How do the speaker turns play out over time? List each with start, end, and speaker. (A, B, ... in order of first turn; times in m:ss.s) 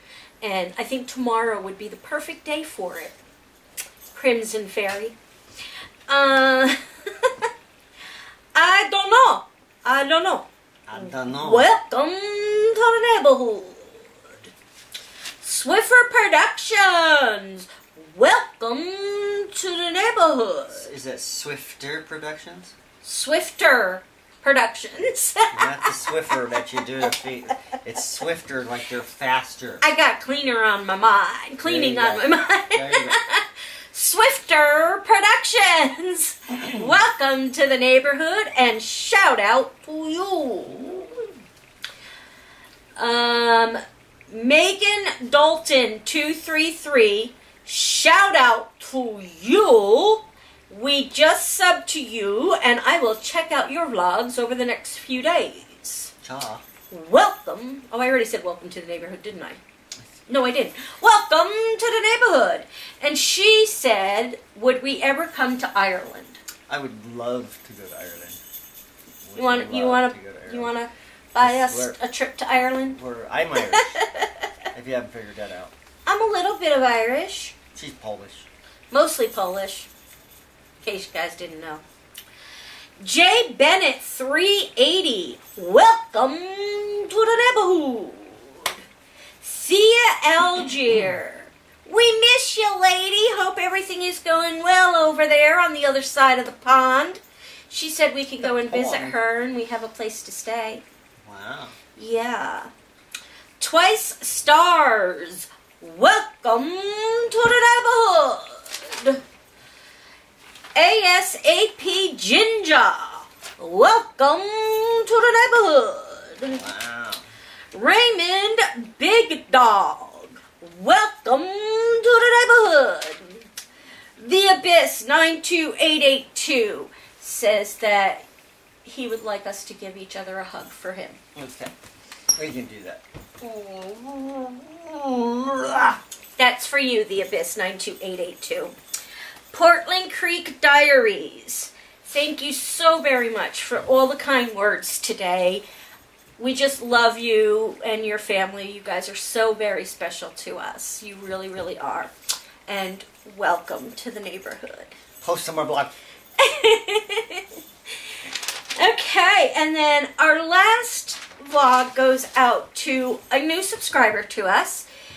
0:00.4-0:03.1 A
0:04.1-0:05.2 A
0:06.1-0:07.4 A
0:08.5-0:10.5 A
0:10.9-0:11.7 B
0:11.0-0:14.5 A
0:15.4-0:20.9 A
0:20.7-0:22.7 B
0:23.0-0:26.0 A
0:25.5-0:29.8 B
0:29.8-0:41.1 A
0:31.6-0:33.2 B
0:43.0-0:56.1 A
0:56.2-0:56.6 B
0:56.9-0:59.6 A
1:00.3-1:06.4 A
1:06.7-1:08.4 B
1:09.2-1:10.7 B
1:09.4-1:13.0 A
1:11.4-1:12.0 B
1:12.9-1:14.0 B
1:13.7-1:14.3 A
1:14.7-1:15.7 B
1:16.0-1:17.6 A
1:17.7-1:18.5 B
1:18.9-1:19.9 A
1:20.8-1:21.8 A
1:23.0-1:28.7 A
1:29.4-1:40.8 A
1:38.4-1:39.2 B
1:41.2-1:41.8 B
1:42.0-1:42.7 A
1:43.6-1:49.2 A
1:50.7-1:56.6 A
1:56.5-1:57.2 B
1:57.7-2:03.4 A
2:04.2-2:08.2 A
2:08.8-2:11.2 A
2:11.3-2:11.7 B
2:12.3-2:16.0 B
2:16.4-2:18.7 A
2:19.5-2:25.6 A
2:26.4-2:32.1 A
2:32.7-2:34.9 A
2:35.2-2:35.9 B
2:36.4-2:37.4 A
2:38.8-2:44.8 A